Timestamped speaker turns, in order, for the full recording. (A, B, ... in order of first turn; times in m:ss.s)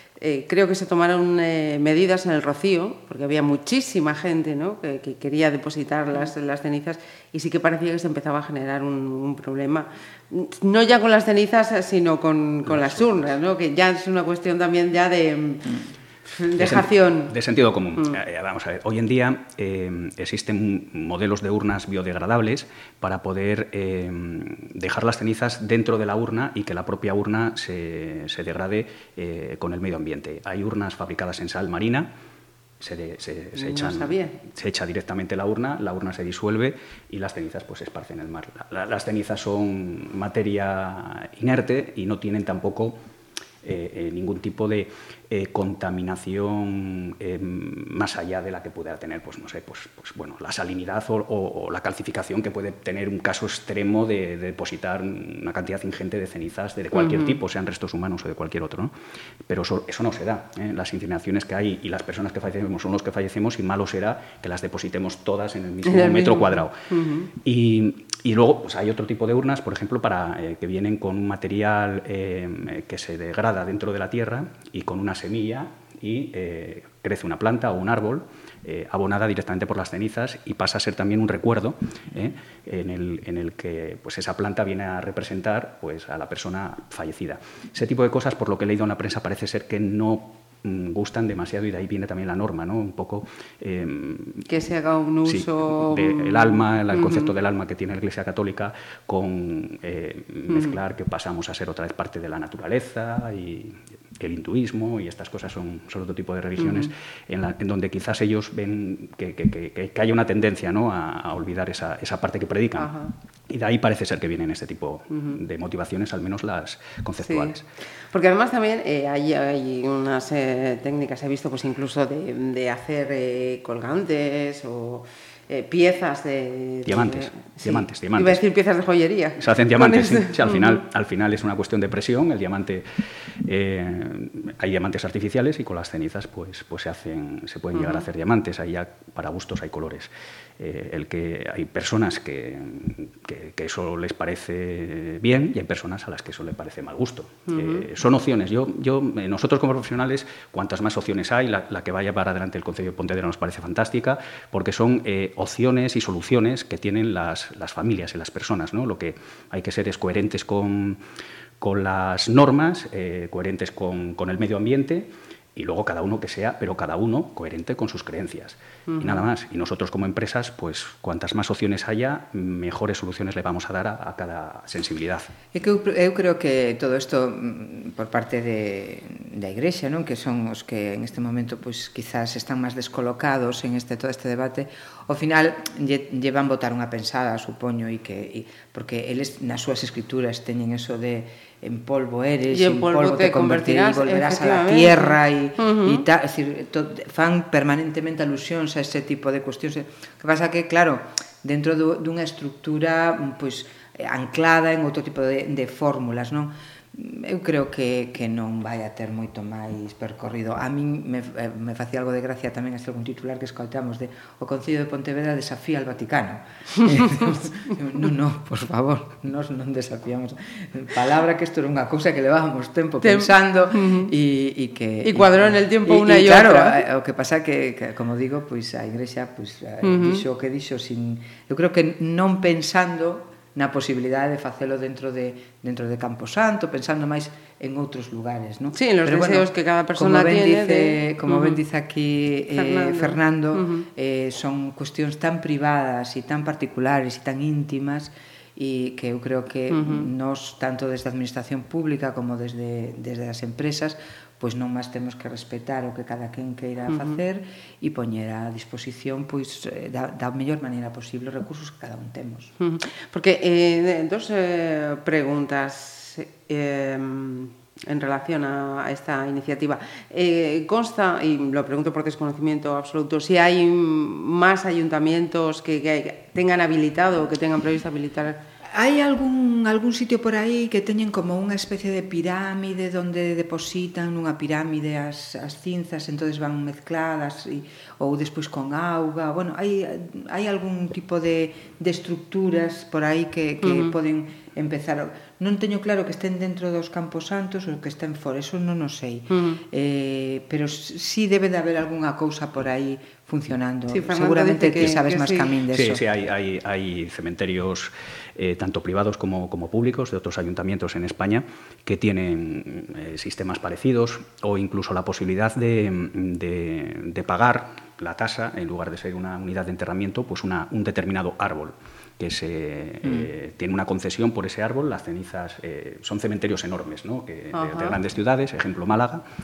0:00.2-0:17.3 A
0:12.6-0:13.3 B
0:16.6-0:32.1 B
0:32.8-0:43.0 B
0:33.6-0:34.4 A
0:43.6-0:58.9 B
0:56.9-0:57.3 A
0:59.5-1:06.8 B
1:05.8-1:07.3 A
1:07.4-1:34.5 B
1:34.5-1:37.3 A
1:35.2-1:52.9 B
1:40.5-1:40.7 A
1:46.6-1:46.9 A
1:52.8-1:53.1 A
1:53.5-1:57.6 B
1:57.2-1:57.5 A
1:58.1-2:10.8 A
2:06.8-2:08.4 B
2:09.4-2:12.8 B
2:13.4-2:41.0 B
2:17.7-2:18.0 A
2:27.5-2:27.8 A
2:41.6-2:55.3 B
2:48.9-2:49.2 A
2:55.5-4:22.5 C
3:12.5-3:16.0 A
3:43.0-3:44.1 A
3:45.0-3:46.8 A
3:49.8-3:50.2 A
3:58.7-4:01.6 A
4:02.5-4:03.8 A
4:09.7-4:10.1 A
4:22.6-4:38.4 A
4:38.7-5:06.0 C
4:53.6-4:53.9 A
4:59.3-4:59.6 A
5:03.9-5:05.6 A
5:05.7-5:29.2 B
5:27.5-5:28.0 A